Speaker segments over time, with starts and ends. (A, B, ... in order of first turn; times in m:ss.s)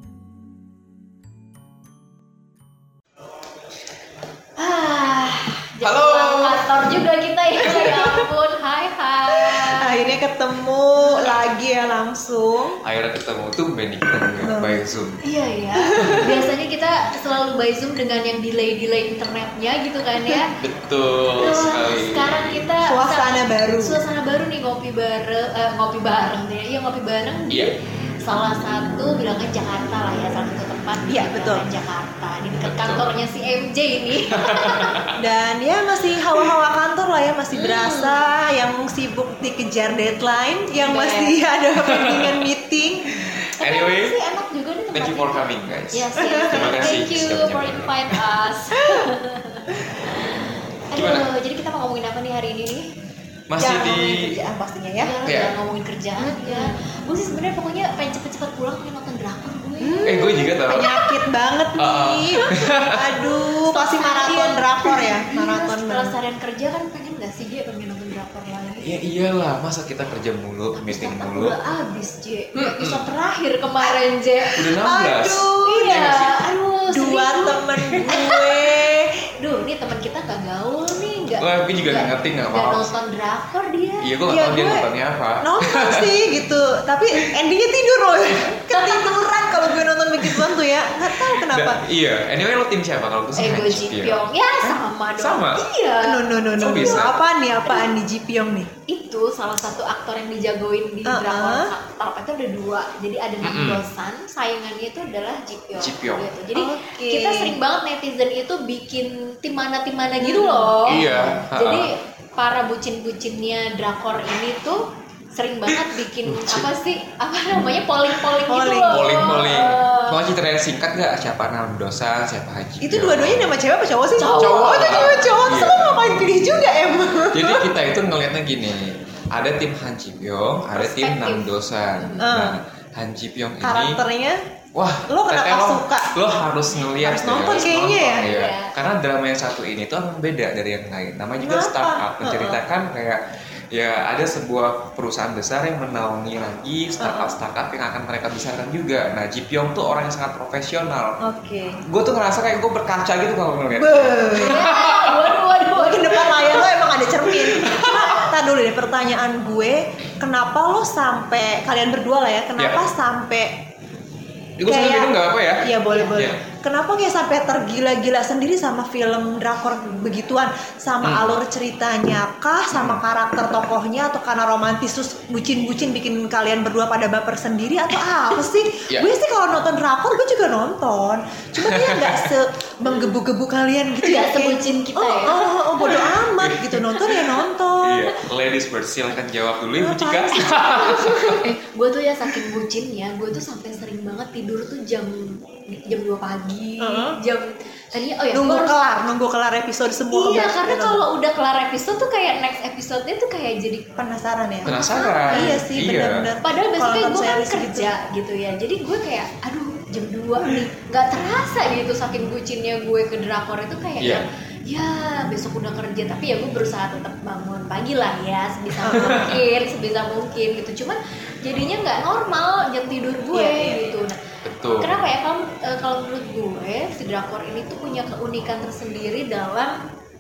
0:04.6-0:10.1 A
0:05.8-0:06.8 B
0:07.6-0:08.2 C
0:09.3-0:12.8 C
0:11.0-0:11.3 A
0:12.8-0:15.2 B
0:14.4-0:14.8 C
0:15.2-0:20.5 A
0:15.8-0:16.5 C
0:20.6-0:22.6 B
0:21.4-0:35.0 A
0:22.8-0:24.0 C
0:31.1-0:31.6 C
0:32.6-0:33.1 B
0:34.4-0:35.3 B
0:35.2-0:43.2 C
0:37.5-0:38.2 A
0:40.8-0:41.4 A
0:41.8-0:42.5 B
0:43.1-0:44.2 B
0:43.6-0:52.9 A
0:44.9-0:48.2 B
0:46.2-0:47.0 C
0:51.0-0:51.3 B
0:53.5-0:54.4 B
0:53.6-0:55.1 C
0:55.0-1:00.1 A
0:55.3-0:55.6 B
0:56.2-0:56.7 C
0:59.8-1:06.1 C
1:00.0-1:00.9 B
1:01.8-1:03.1 B
1:02.4-1:09.0 A
1:08.8-1:11.5 B
1:10.7-1:14.7 A
1:12.6-1:13.1 B
1:14.5-1:16.4 B
1:14.7-1:16.1 C
1:15.6-1:24.1 A
1:16.9-1:19.3 C
1:21.4-1:22.9 B
1:24.0-1:26.2 B
1:24.3-1:31.8 C
1:28.7-1:29.5 A
1:30.2-1:30.6 B
1:31.2-1:34.2 B
1:33.4-1:37.1 A
1:35.2-1:35.6 B
1:36.0-1:38.7 C
1:36.6-1:37.2 B
1:38.9-2:00.3 A
1:41.0-1:41.7 C
1:43.4-1:43.8 B
1:45.8-1:46.3 B
1:46.6-1:47.6 C
1:50.2-1:51.2 C
1:50.9-1:51.9 B
1:55.7-1:56.7 B
1:58.5-1:59.3 C
1:58.9-2:03.5 B
2:02.8-2:07.7 C
2:04.2-2:05.2 A
2:04.3-2:06.3 B
2:07.3-2:14.0 B
2:10.7-2:12.3 A
2:12.2-2:12.6 C
2:13.6-2:14.4 C
2:14.8-2:23.2 B
2:15.1-2:16.2 C
2:17.0-2:18.3 C
2:17.4-2:18.8 A
2:21.4-2:22.6 C
2:23.7-2:31.2 B
2:27.0-2:27.4 C
2:31.2-2:31.8 C
2:31.9-2:35.4 B
2:33.8-2:34.6 C
2:34.3-2:36.7 A
2:35.7-2:43.6 C
2:37.3-2:38.3 B
2:44.6-2:46.4 B
2:44.7-3:08.2 C
2:45.9-2:46.2 A
2:51.0-2:51.4 B
2:52.7-2:53.0 B
3:01.6-3:02.3 B
3:04.0-3:06.1 A
3:06.0-3:07.2 B
3:07.8-3:11.4 B
3:09.8-3:10.6 C
3:10.3-3:18.8 A
3:16.8-3:17.2 C
3:18.3-3:21.0 C
3:20.1-3:23.9 A
3:24.0-3:24.8 C
3:24.6-3:25.6 A
3:24.6-3:26.3 B
3:25.3-3:27.9 C
3:26.4-3:44.2 A
3:30.4-3:30.7 C
3:38.8-3:39.2 C
3:38.9-3:39.4 B
3:43.3-3:43.9 C
3:44.4-3:44.9 B
3:44.8-3:49.8 A